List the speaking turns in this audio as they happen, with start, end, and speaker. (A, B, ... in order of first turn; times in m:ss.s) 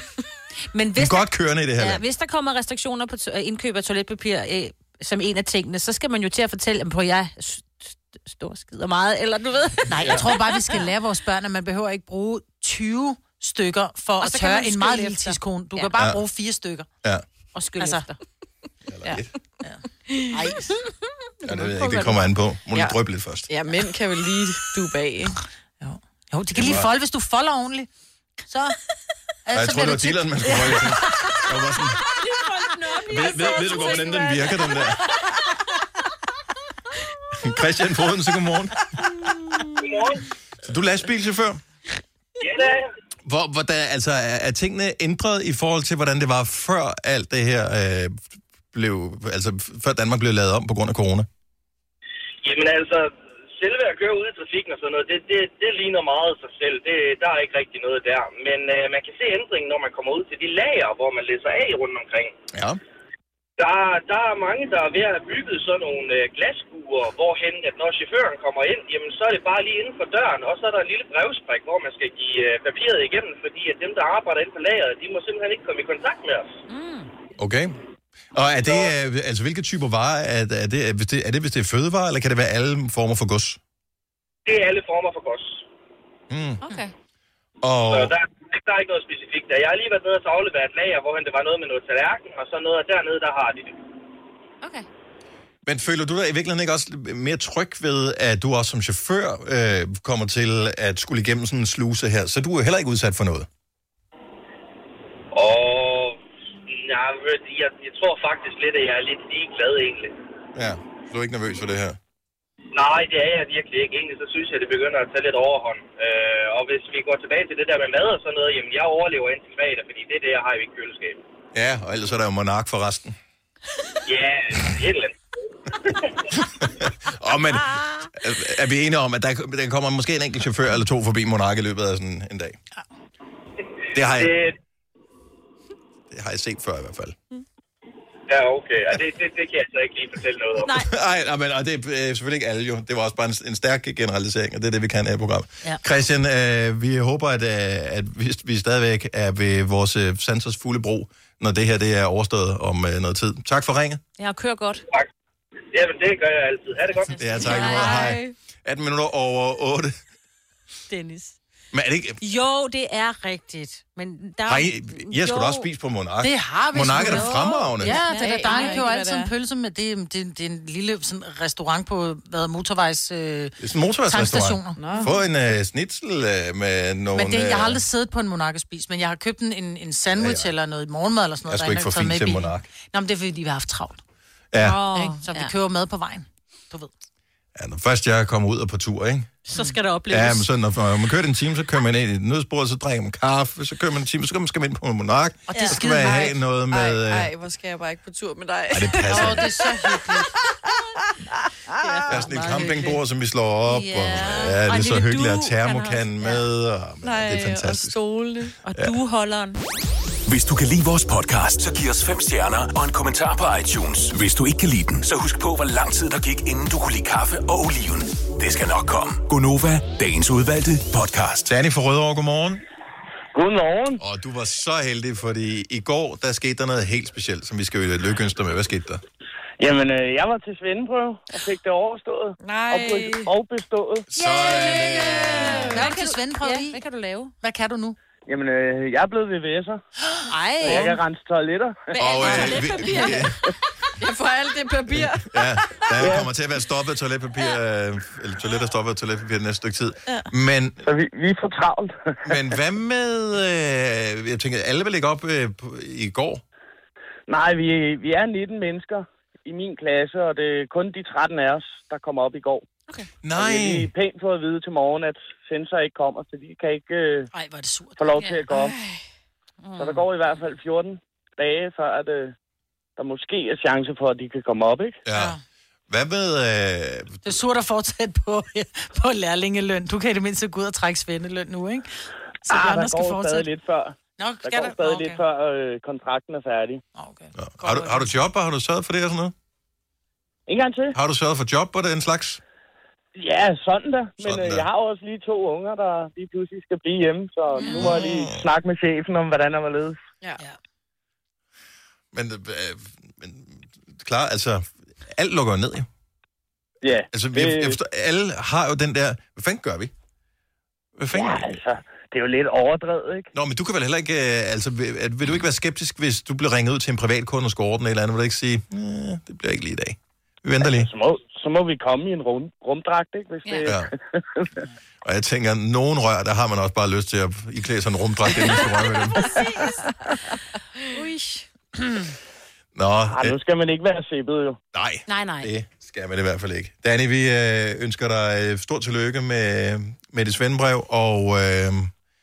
0:00.7-0:01.2 A
0:01.0-0:02.0 B
0:01.8-0:10.8 A
0:09.9-0:16.9 C
0:14.2-0:15.9 A
0:17.6-0:18.2 A
0:17.8-0:18.1 C
0:18.9-0:19.3 B
0:19.6-0:20.8 C
0:21.4-0:23.5 B
0:23.5-0:25.4 D
0:25.8-0:27.9 C
0:26.6-0:26.9 B
0:28.5-0:28.8 C
0:29.5-0:30.9 C
0:29.5-0:32.0 B
0:32.2-0:34.8 A
0:33.1-0:35.0 B
0:33.7-0:34.1 D
0:37.4-0:38.8 B
0:39.8-0:40.2 E
0:40.6-0:41.6 B
0:42.4-0:42.9 E
0:43.2-0:51.3 B
0:52.4-1:02.3 E
1:02.5-1:02.8 B
1:03.6-1:16.5 E
1:16.7-1:17.1 A
1:17.4-1:17.8 B
1:18.3-1:23.6 B
1:24.5-1:25.6 E
1:26.3-1:26.6 B
1:26.7-1:26.9 A
1:27.6-1:28.1 B
1:27.9-1:33.8 E
1:35.6-1:43.5 B
1:45.3-1:46.2 E
1:46.7-1:50.2 E
1:50.6-1:52.0 B
1:52.7-2:01.2 E
2:01.5-2:03.2 B
2:04.1-2:05.2 E
2:05.8-2:06.1 E
2:06.3-2:12.6 B
2:13.9-2:14.3 B
2:14.1-2:14.6 E
2:16.1-2:17.2 B
2:18.3-2:20.7 E
2:20.6-2:20.9 A
2:20.8-2:34.0 B
2:34.2-2:34.8 A
2:35.7-2:37.2 E
2:37.2-2:39.9 B
2:37.3-2:37.9 C
2:37.4-2:38.2 A
2:37.8-2:38.1 D
2:40.9-2:41.3 A
2:41.7-2:42.2 B
2:42.2-2:45.7 A
2:44.5-2:48.0 B
2:46.2-2:53.6 C
2:47.0-2:48.9 A
2:47.9-2:49.3 D
2:53.6-2:57.8 B
2:54.1-2:54.8 C
2:54.8-2:55.1 D
2:57.2-3:04.0 C
3:00.2-3:00.5 B
3:01.5-3:02.7 B
3:04.5-3:04.8 B
3:04.6-3:05.5 A
3:04.9-3:06.9 C
3:07.6-3:09.4 B
3:09.5-3:10.5 A
3:10.1-3:17.3 B
3:15.5-3:16.4 C
3:16.7-3:19.5 D
3:18.7-3:19.5 B
3:19.1-3:20.3 C
3:21.8-3:23.0 A
3:22.1-3:28.0 B
3:23.7-3:26.4 A
3:27.0-3:28.6 D
3:28.6-3:29.6 A
3:30.3-3:41.5 F
3:41.5-3:42.6 B
3:43.3-3:44.0 G
3:44.0-3:49.0 B
3:49.6-3:54.1 G
3:52.4-3:53.3 D
3:54.1-3:55.8 B
3:54.2-3:56.8 C
3:54.4-3:57.3 A
3:57.4-3:58.0 C
3:58.3-3:59.8 G
4:00.3-4:01.0 A
4:00.6-4:01.9 G
4:01.9-4:03.4 A
4:02.0-4:03.4 B
4:02.2-4:03.2 D
4:04.0-4:06.2 D
4:04.9-4:10.8 B
4:10.8-4:12.4 G
4:12.2-4:16.4 B
4:17.3-4:22.7 G
4:23.2-4:23.9 B
4:23.4-4:27.3 G
4:27.3-4:28.2 C
4:28.0-4:28.8 G
4:28.6-4:29.0 D
4:29.6-4:30.0 A
4:29.8-4:32.3 G
4:33.0-4:35.0 G
4:35.0-4:35.4 B
4:35.1-4:35.4 C
4:35.9-4:37.4 B
4:37.2-4:41.9 C
4:42.4-4:43.5 C
4:42.5-4:46.8 G
4:44.2-4:45.2 C
4:47.0-4:48.1 C
4:47.4-4:49.3 B
4:50.5-4:50.9 G
4:51.0-4:52.4 B
4:53.2-5:00.0 G
4:54.2-4:54.6 B
4:57.6-4:58.0 C
4:57.7-4:58.4 B
5:02.1-5:05.9 B
5:06.8-5:07.8 G
5:07.1-5:09.9 B
5:11.0-5:11.6 B
5:11.1-5:13.3 G
5:13.3-5:20.9 B
5:20.6-5:24.5 G
5:25.0-5:29.3 B
5:32.8-5:33.4 B
5:33.1-5:34.6 G
5:34.7-5:41.9 B
5:35.1-5:35.5 A